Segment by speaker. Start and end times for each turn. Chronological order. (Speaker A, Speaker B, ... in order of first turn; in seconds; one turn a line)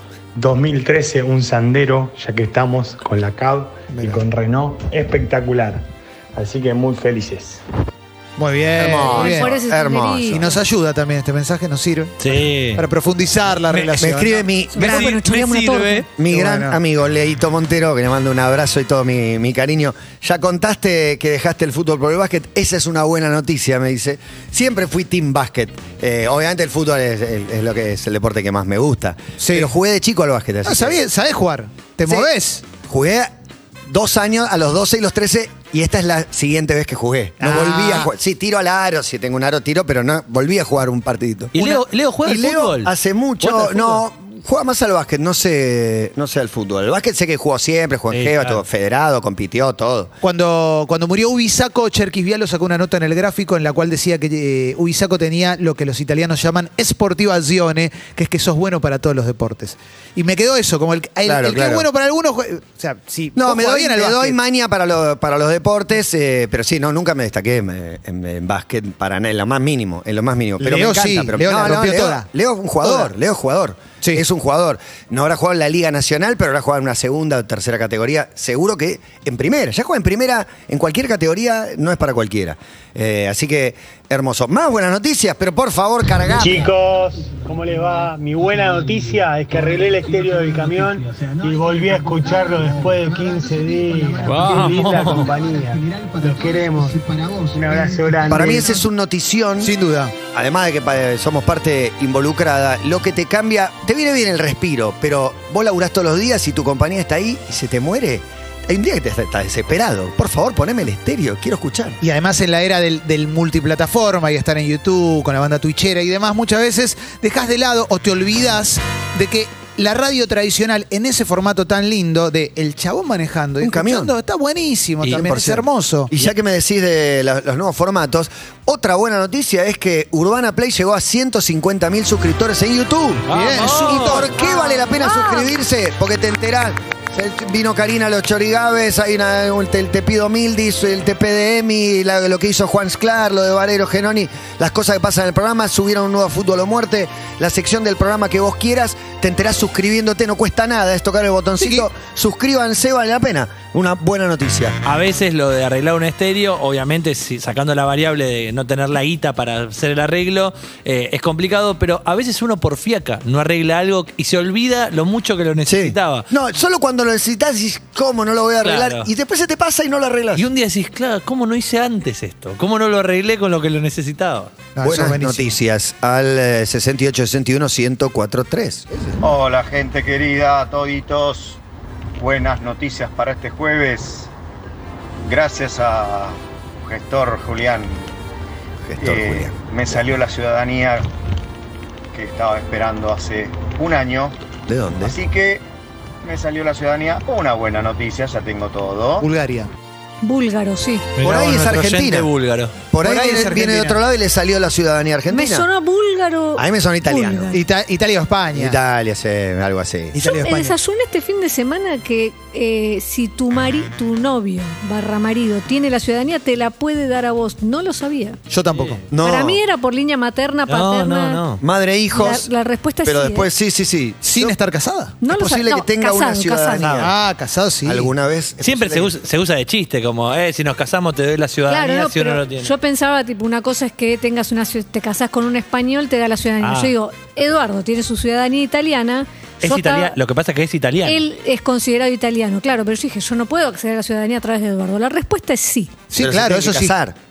Speaker A: 0.3-5.8
Speaker B: 3.9-4.2
Speaker A: 6.3-7.6
Speaker B: 8.4-9.5
Speaker C: 8.8-10.6
Speaker D: 9.0-10.4
Speaker B: 10.3-14.4
Speaker E: 12.2-12.8
Speaker E: 13.7-14.1
Speaker C: 14.0-31.0
Speaker D: 14.7-16.1
Speaker E: 14.7-16.1
Speaker B: 16.2-16.8
Speaker B: 29.4-29.7
Speaker B: 30.6-32.6
Speaker C: 32.8-33.3
Speaker C: 33.9-41.7
Speaker B: 37.4-38.1
Speaker E: 41.5-42.9
Speaker C: 42.2-50.1
Speaker E: 43.4-44.0
Speaker E: 48.1-48.6
Speaker B: 50.2-64.4
Speaker C: 61.2-61.9
Speaker C: 63.3-86.7
Speaker B: 70.6-72.2
Speaker B: 72.8-73.1
Speaker A: 86.3-98.8
Speaker E: 94.2-95.3
Speaker C: 98.3-99.7
Speaker B: 99.6-100.1
Speaker C: 100.3-112.0
Speaker B: 112.0-126.1
Speaker C: 123.6-124.1
Speaker C: 125.1-133.2
Speaker E: 133.3-134.3
Speaker B: 133.3-134.3
Speaker C: 133.8-154.8
Speaker D: 134.3-135.5
Speaker B: 151.6-151.9
Speaker E: 154.8-166.3
Speaker C: 165.7-170.5
Speaker E: 168.6-169.1
Speaker E: 170.3-174.5
Speaker B: 174.8-175.5
Speaker C: 174.8-179.2
Speaker F: 179.2-181.6
Speaker F: 182.2-184.3
Speaker F: 185.2-188.1
Speaker C: 188.8-189.6
Speaker F: 189.0-191.1
Speaker F: 192.1-194.4
Speaker C: 194.7-195.2
Speaker F: 195.0-195.6
Speaker F: 196.2-199.3
Speaker B: 199.2-199.7
Speaker D: 200.2-201.1
Speaker E: 201.2-202.8
Speaker C: 201.2-202.3
Speaker C: 202.9-205.7
Speaker B: 203.0-204.0
Speaker D: 205.3-207.6
Speaker C: 206.6-207.5
Speaker B: 207.5-208.8
Speaker C: 208.5-210.2
Speaker B: 210.1-210.8
Speaker D: 210.2-218.4
Speaker B: 218.5-219.0
Speaker E: 218.7-219.0
Speaker C: 219.1-219.6
Speaker D: 219.2-221.4
Speaker E: 220.7-221.6
Speaker C: 221.6-222.5
Speaker D: 222.1-223.5
Speaker C: 223.0-224.6
Speaker B: 224.2-225.1
Speaker D: 225.2-227.0
Speaker C: 225.3-227.1
Speaker B: 227.0-228.1
Speaker C: 227.8-229.1
Speaker E: 228.6-232.7
Speaker D: 231.7-240.2
Speaker E: 236.6-236.9
Speaker E: 239.6-241.2
Speaker D: 241.0-245.9
Speaker B: 246.1-246.9
Speaker C: 246.2-247.1